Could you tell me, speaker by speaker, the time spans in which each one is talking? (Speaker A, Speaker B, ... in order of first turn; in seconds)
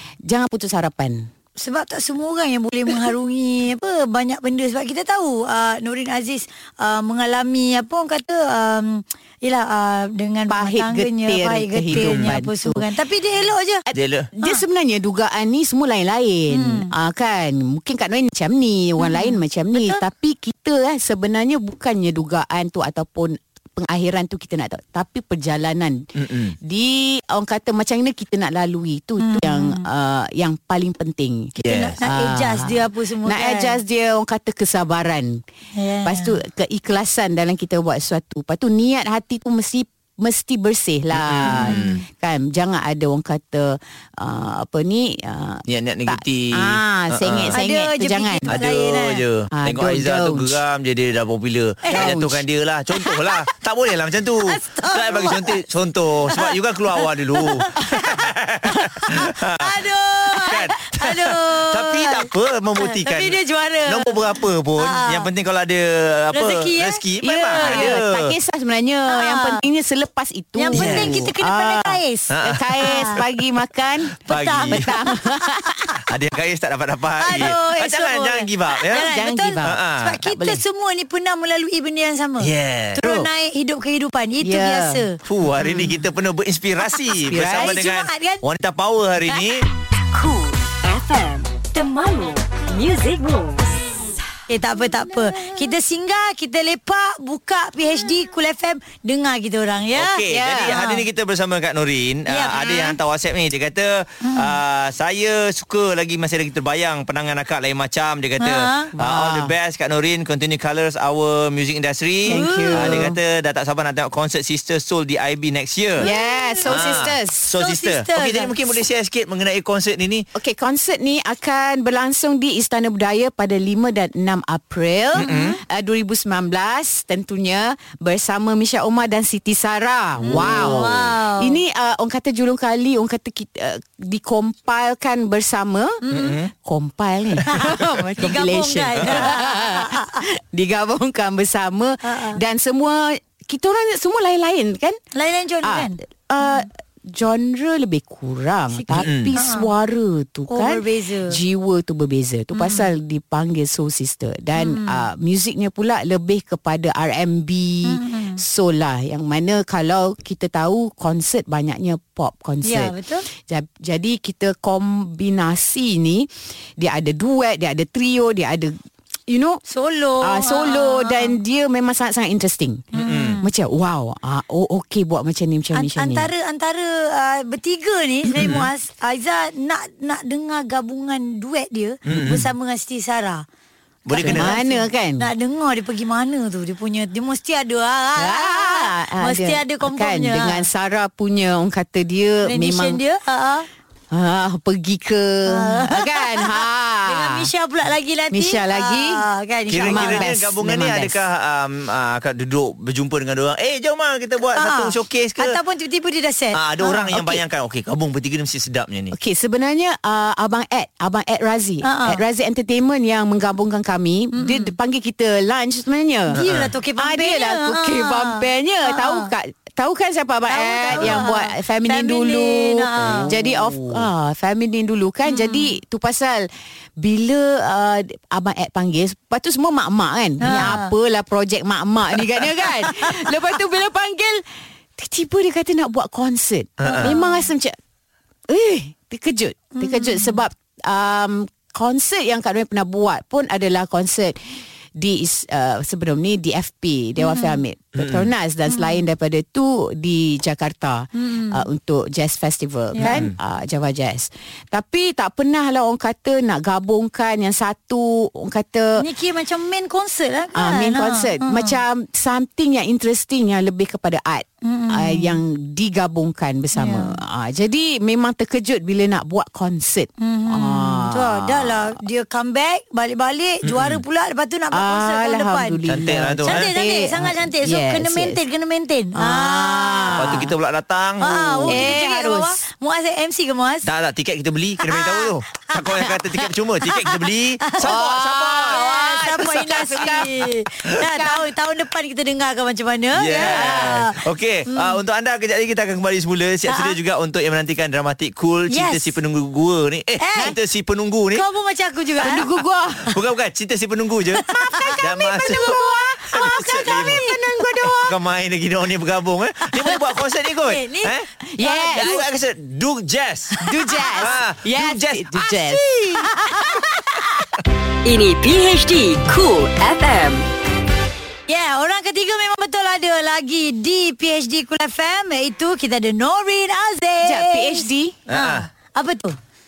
Speaker A: 0.2-1.3, 10.5-12.8, 14.3-26.1, 26.6-35.4, 36.0-48.6, 49.5-50.6, 51.9-52.4, 67.2-74.2, 74.7-75.9, 78.9-80.6, 84.4-85.0, 85.6-86.0, 87.2-87.7, 100.3-100.8, 102.6-102.9, 108.9-109.5, 112.2-113.2, 116.0-117.5, 120.3-136.0, 136.5-145.0, 145.6-168.8, 169.3-169.6, 170.2-176.3, 178.3-178.6, 184.2-185.3, 188.2-193.0, 194.1-197.5, 198.3-199.2, 199.8-201.2, 209.1-216.4, 217.0-234.4, 235.0-237.8, 238.5-244.4, 244.9-259.0, 260.5-272.0, 274.7-278.4, 279.1-280.5, 281.7-282.6, 287.8-290.4, 291.0-291.4, 293.4-294.0, 302.2-303.1, 304.6-308.1, 311.5-312.2, 313.6-317.5, 327.2-328.2
Speaker B: 1.6-13.8, 16.5-16.9, 19.0-20.0, 29.2-29.8, 31.6-33.8, 35.8-36.4, 41.6-41.9, 47.5-49.2, 51.8-52.1, 52.9-53.4, 54.5-55.6, 57.4-58.3, 58.9-65.3, 66.3-68.0, 69.1-69.6, 70.5-73.2, 74.2-75.9, 77.2-85.2, 87.0-88.4, 94.5-101.0, 102.3-102.9, 104.2-104.5, 108.4-108.9, 112.3-113.0, 116.0-117.0, 117.6-118.5, 125.2-125.5, 130.2-131.6, 136.0-136.4, 137.5-140.2, 142.0-142.4, 145.1-146.7, 148.7-149.7, 150.5-151.4, 152.5-152.9, 154.6-155.0, 157.8-158.4, 162.6-163.3, 169.7-171.3, 172.9-173.5, 175.7-183.4, 184.1-190.7, 192.4-193.7, 195.5-200.3, 204.5-207.3, 211.8-212.2, 214.3-214.7, 216.3-219.3, 220.5-223.3, 225.2-225.7, 230.4-230.9, 232.8-233.3, 236.8-237.5, 239.7-240.4, 247.2-247.6, 248.7-249.0, 251.1-251.6, 252.9-253.2, 259.0-261.8, 264.6-265.4, 266.7-267.1, 270.2-275.8, 276.4-280.4, 281.2-283.9, 284.8-286.1, 286.9-287.1, 287.7-287.9, 288.6-294.2, 294.7-295.0, 296.7-296.9, 298.7-299.1, 300.2-300.5, 301.3-302.5, 304.5-307.4, 310.6-312.2, 313.6-314.2, 321.5-329.4
Speaker C: 11.9-12.3, 13.9-14.3, 26.1-26.6, 31.6-32.0, 41.1-42.0, 45.7-47.6, 48.5-68.3, 70.7-71.3, 72.3-73.3, 74.2-74.9, 76.0-79.0, 79.6-80.2, 82.4-83.2, 85.2-89.6, 99.9-116.1, 116.7-120.2, 125.2-125.6, 130.3-130.9, 136.1-136.5, 139.0-139.3, 148.9-149.3, 172.9-173.4, 178.3-178.7, 182.1-182.5, 184.1-184.5, 199.7-205.6, 206.5-209.1, 216.3-216.7, 220.9-221.2, 223.0-223.4, 236.8-237.1, 248.0-248.3, 253.0-253.3, 273.6-274.0, 275.9-276.7, 280.1-282.0, 283.8-288.8, 289.4-290.3, 293.1-301.4, 303.1-305.8, 306.3-307.3, 307.8-311.3, 311.9-313.6, 314.2-316.3, 328.3-328.7
Speaker D: 90.1-93.7, 318.0-320.5